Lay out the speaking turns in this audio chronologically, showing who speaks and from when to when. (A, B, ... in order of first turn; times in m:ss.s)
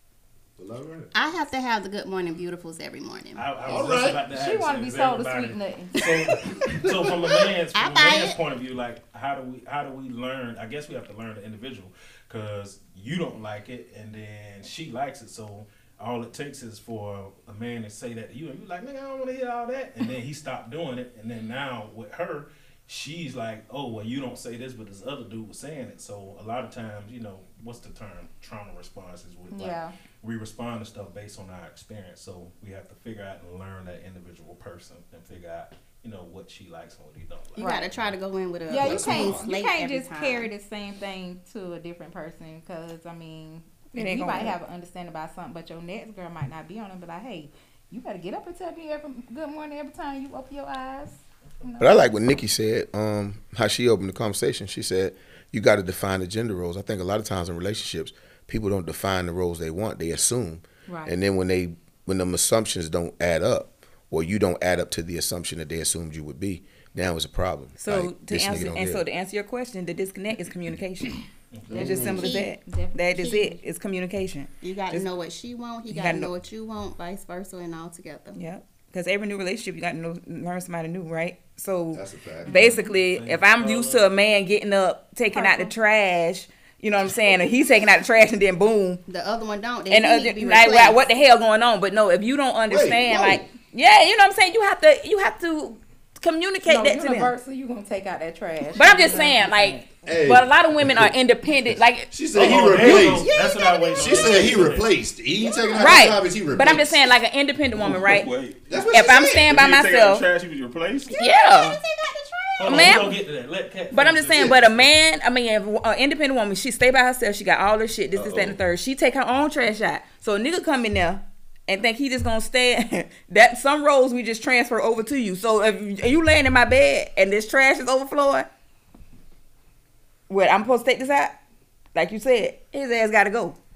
0:00.6-0:01.1 A
0:01.1-0:03.4 B
0:03.4-0:38.2 C
0:03.6-0:04.2 A
0:04.3-0:06.0 D
0:06.7-0:07.1 A
0:07.7-0:08.4 B
0:29.5-0:29.9 D
0:37.6-0:40.5 B
0:37.6-0:37.9 D
0:38.7-0:52.1 D
0:38.7-0:39.5 A
0:43.9-0:44.6 E
0:51.8-1:09.0 F
1:00.9-1:01.2 D
1:07.8-1:15.1 E
1:11.5-1:12.1 C
1:11.7-1:12.3 A
1:11.8-1:12.5 B
1:12.2-1:13.6 D
1:13.2-1:13.5 B
1:14.6-1:18.4 B
1:15.9-1:16.3 E
1:18.4-1:29.0 E
1:21.9-1:22.6 A
1:22.5-1:22.9 D
1:22.5-1:24.1 C
1:25.3-1:25.8 D
1:29.1-1:31.0 B
1:29.9-1:37.4 E
1:32.7-1:33.5 A
1:36.6-1:40.0 D
1:38.7-1:42.3 E
1:40.0-1:41.2 A
1:41.7-1:43.3 A
1:42.3-1:44.9 C
1:43.0-1:44.0 B
1:43.9-1:47.0 A
1:45.8-1:48.3 E
1:47.8-1:51.1 G
1:48.7-1:49.5 A
1:48.9-1:50.2 E
1:51.1-1:51.8 E
1:51.2-1:53.0 D
1:52.6-1:54.6 C
1:52.6-1:53.2 E
1:53.9-2:08.5 E
1:54.3-1:54.9 A
1:58.1-1:58.6 A
2:10.3-2:11.4 E
2:12.0-2:13.6 E